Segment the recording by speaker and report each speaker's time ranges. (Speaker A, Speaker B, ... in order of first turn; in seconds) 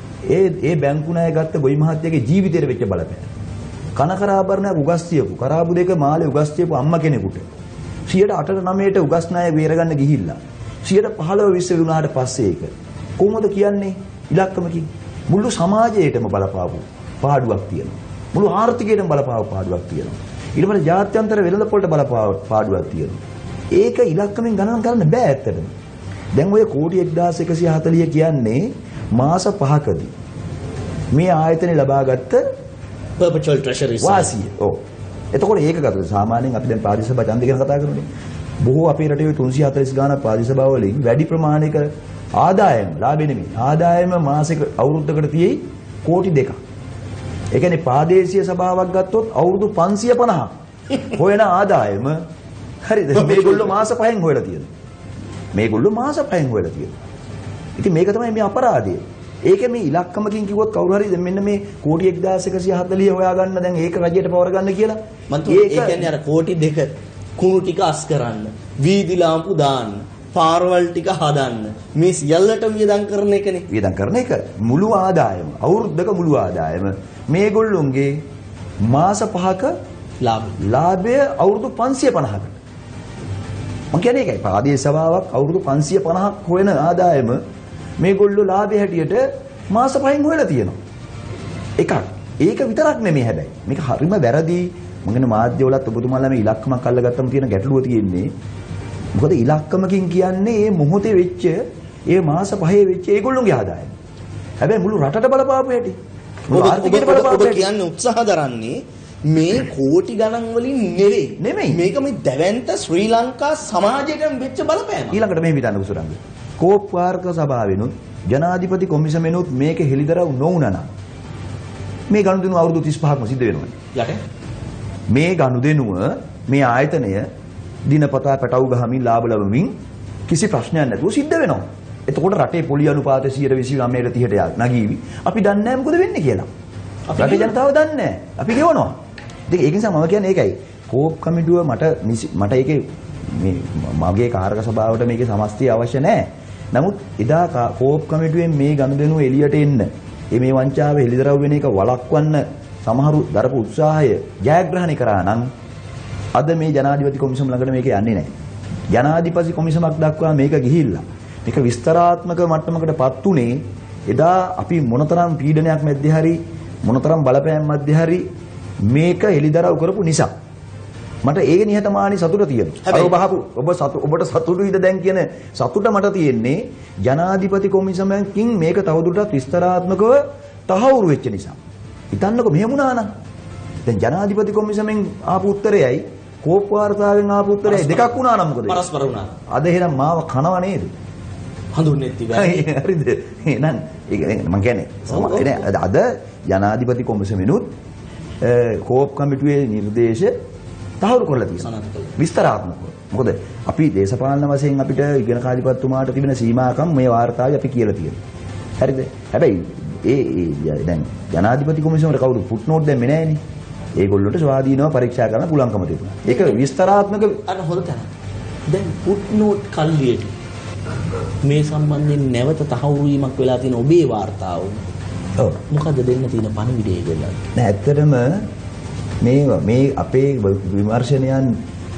Speaker A: 0.3-3.3, 4.0-7.5, 8.1-23.2, 23.7-25.7, 26.3-30.1, 31.1-32.4, 34.0-34.8, 35.3-38.1, 38.6-46.6, 47.5-52.2, 52.8-54.7, 55.5-57.0, 57.8-66.1, 73.7-78.2, 78.8-79.7, 80.6-82.6, 83.9-87.4, 88.0-90.8, 91.8-98.3, 99.2-103.9, 104.6-106.0, 106.5-107.7, 111.4-111.8, 115.1-120.9, 122.1-123.7, 125.1-127.3, 127.8-129.7, 130.3-136.5, 137.2-139.0, 139.5-155.5, 156.3-158.3, 158.9-168.3, 168.8-170.3, 171.2-181.6, 182.1-183.1, 183.8-188.8, 189.5-190.9, 192.3-197.7, 198.4-200.3, 201.0-208.2, 208.8-213.4, 214.0-217.4, 227.5-228.5, 229.2-231.6
Speaker B: 33.2-34.3, 65.3-73.7, 80.2-80.6, 106.5-115.2, 123.9-124.2, 137.1-137.5, 172.8-173.1, 187.7-189.4, 191.7-192.7, 195.1-195.7, 201.6-202.1, 217.5-218.1, 218.7-220.3, 221.4-224.9, 225.7-227.5